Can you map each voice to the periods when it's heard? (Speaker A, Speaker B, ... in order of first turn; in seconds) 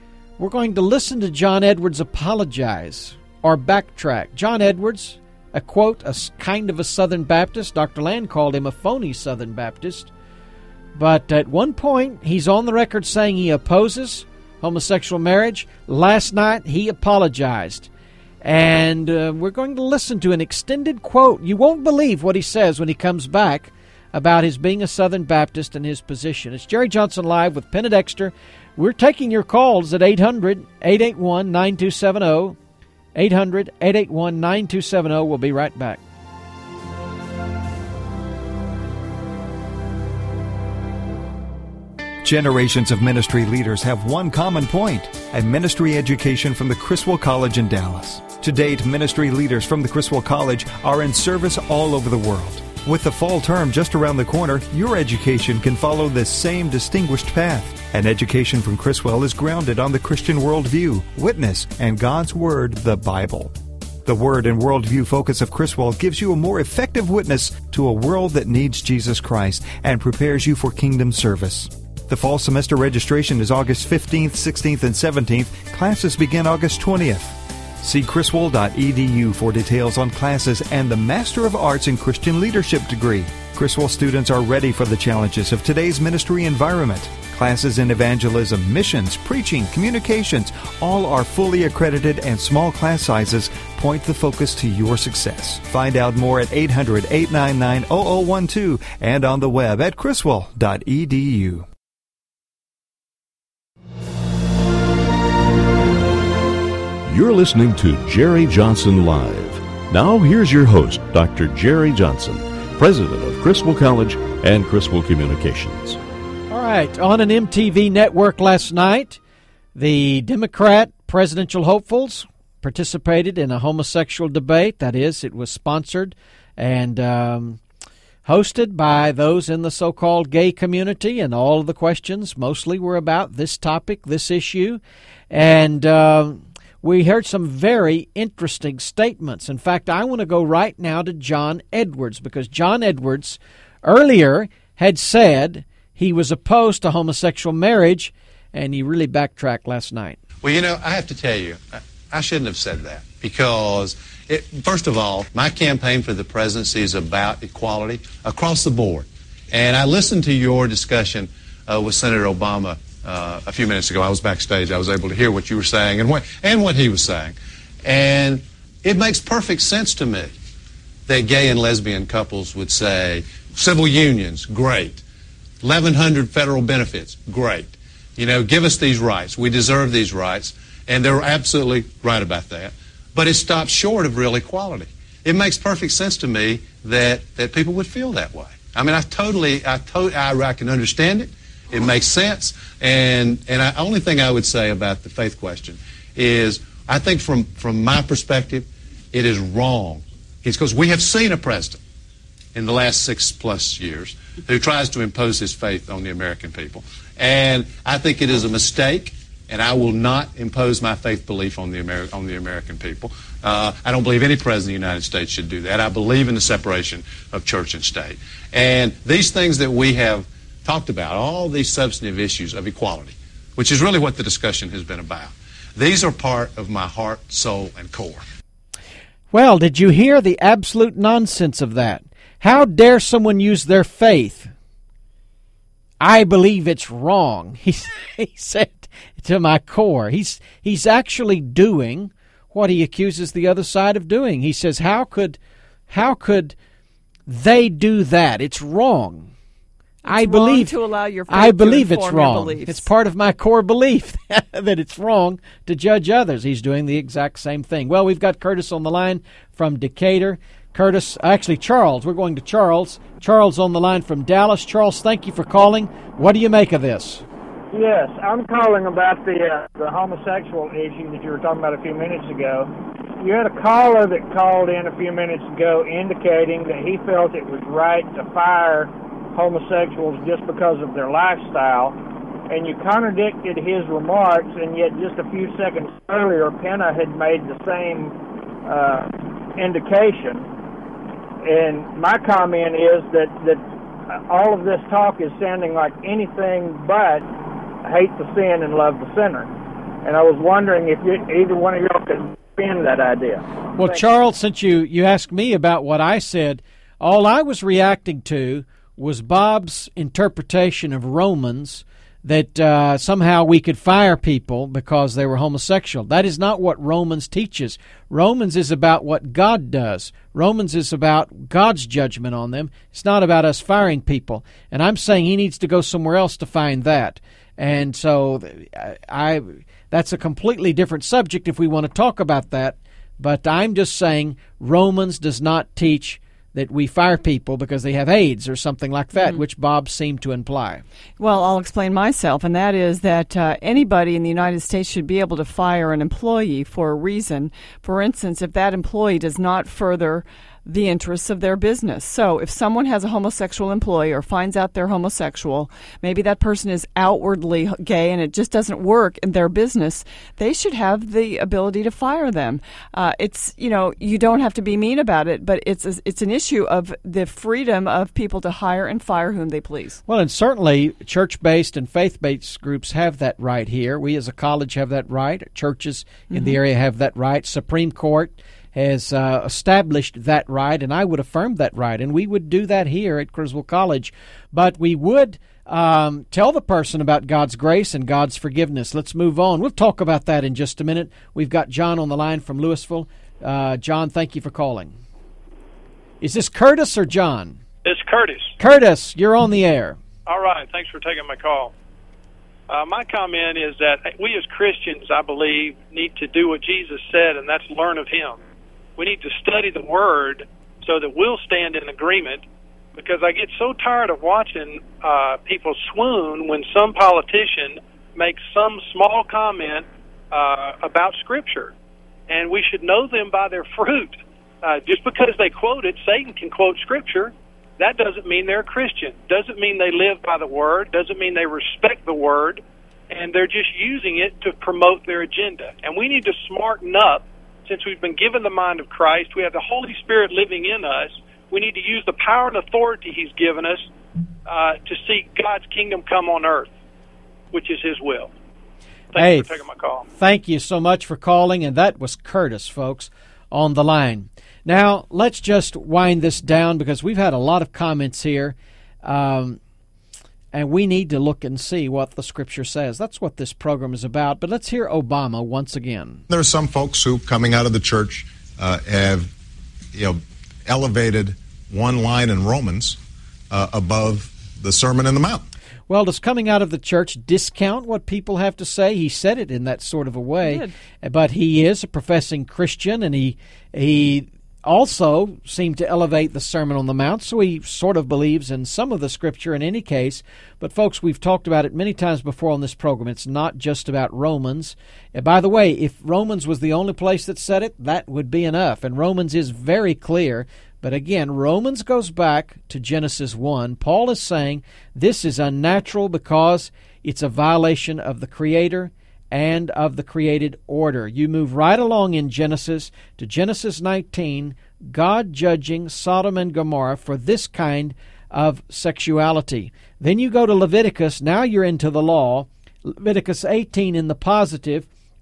Speaker A: 0.4-10.1, 10.9-17.9, 18.4-32.6, 33.1-36.0, 116.5-119.2, 119.7-127.6, 128.2-150.2, 229.3-234.5, 236.0-245.4, 245.9-246.6, 247.3-249.3, 250.1-250.7, 251.3-267.2, 303.7-340.8, 370.1-395.0, 396.2-397.6, 398.6-400.0, 449.1-449.6, 450.1-459.6, 460.5-466.2, 475.9-524.9
Speaker B: 42.2-101.7
Speaker C: 107.0-116.0
Speaker D: 150.4-170.3, 171.1-175.0, 175.6-201.8, 202.5-228.2
Speaker E: 250.1-252.9, 341.2-370.0, 376.3-376.6, 480.4-480.7
Speaker F: 267.7-282.0, 282.5-290.5, 291.4-297.3, 297.8-304.1
Speaker G: 397.8-398.5, 400.2-401.7, 402.7-408.4, 409.0-421.7, 422.3-443.9, 444.5-446.7, 447.5-448.3, 449.1-450.1
Speaker H: 466.3-469.3, 469.9-473.0, 473.5-475.4